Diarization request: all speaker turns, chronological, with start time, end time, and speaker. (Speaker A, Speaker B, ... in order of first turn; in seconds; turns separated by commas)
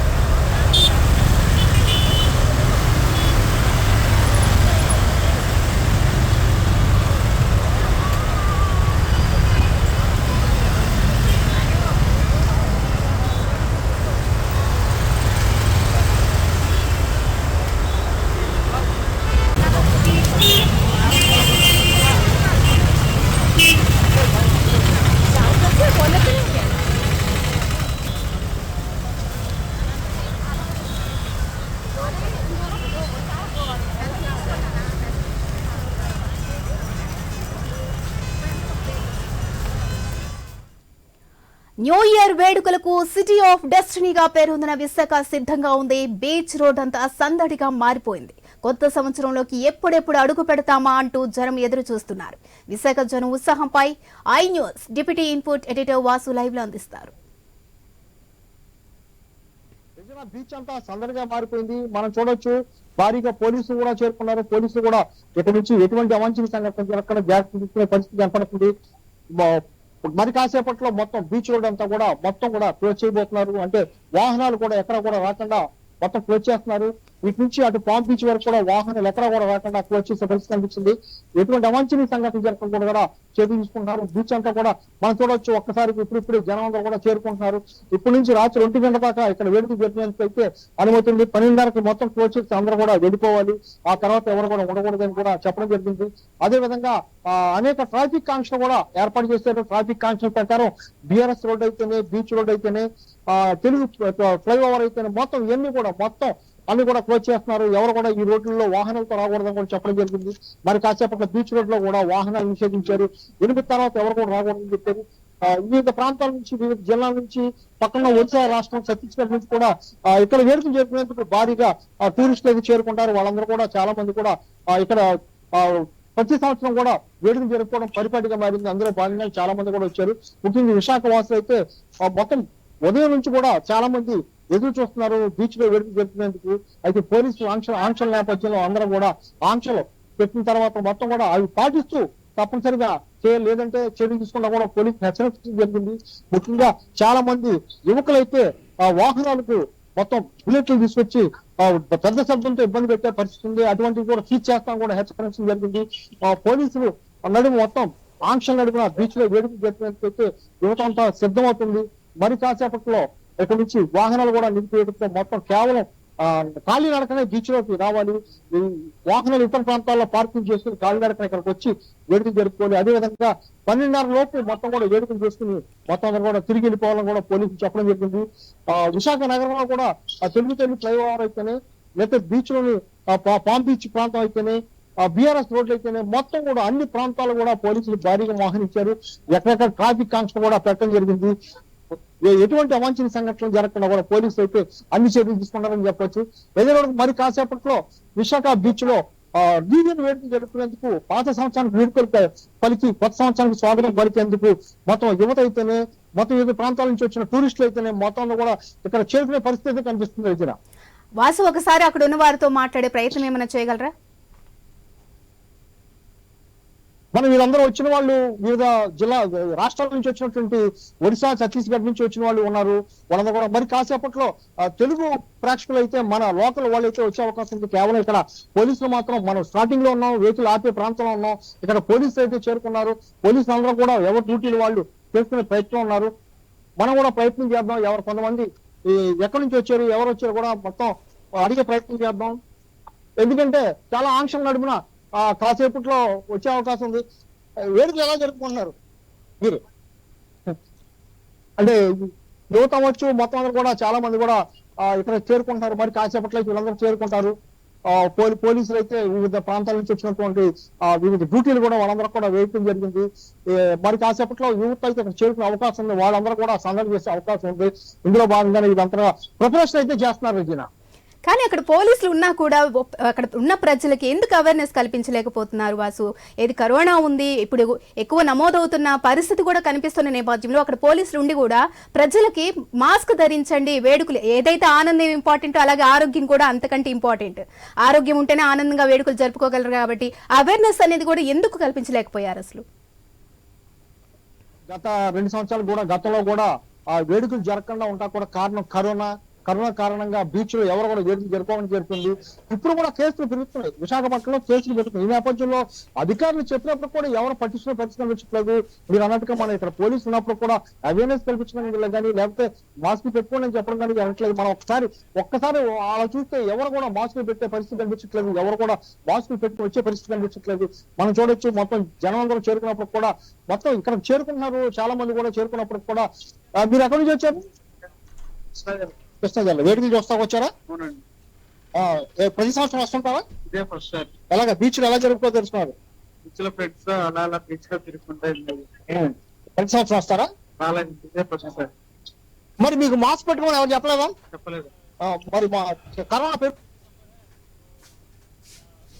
Speaker A: 41.8-57.1, Speaker B: 60.0-68.7, Speaker B: 70.2-125.0, Speaker B: 125.6-191.3, Speaker B: 191.9-210.6, Speaker A: 211.2-213.9, Speaker B: 217.1-236.1, Speaker B: 236.8-242.3, Speaker B: 243.2-247.0, Speaker B: 247.8-248.7, Speaker B: 251.6-257.3, Speaker B: 257.9-270.7, Speaker A: 271.3-292.6, Speaker B: 294.7-326.1, Speaker B: 326.6-327.4, Speaker C: 328.6-328.9, Speaker B: 329.2-330.5, Speaker C: 330.7-331.0, Speaker B: 331.8-333.2, Speaker C: 333.5-334.1, Speaker B: 334.3-335.7, Speaker C: 336.2-338.7, Speaker B: 338.9-340.3, Speaker C: 340.6-341.7, Speaker B: 342.6-344.1, Speaker C: 344.3-344.7, Speaker B: 345.0-346.5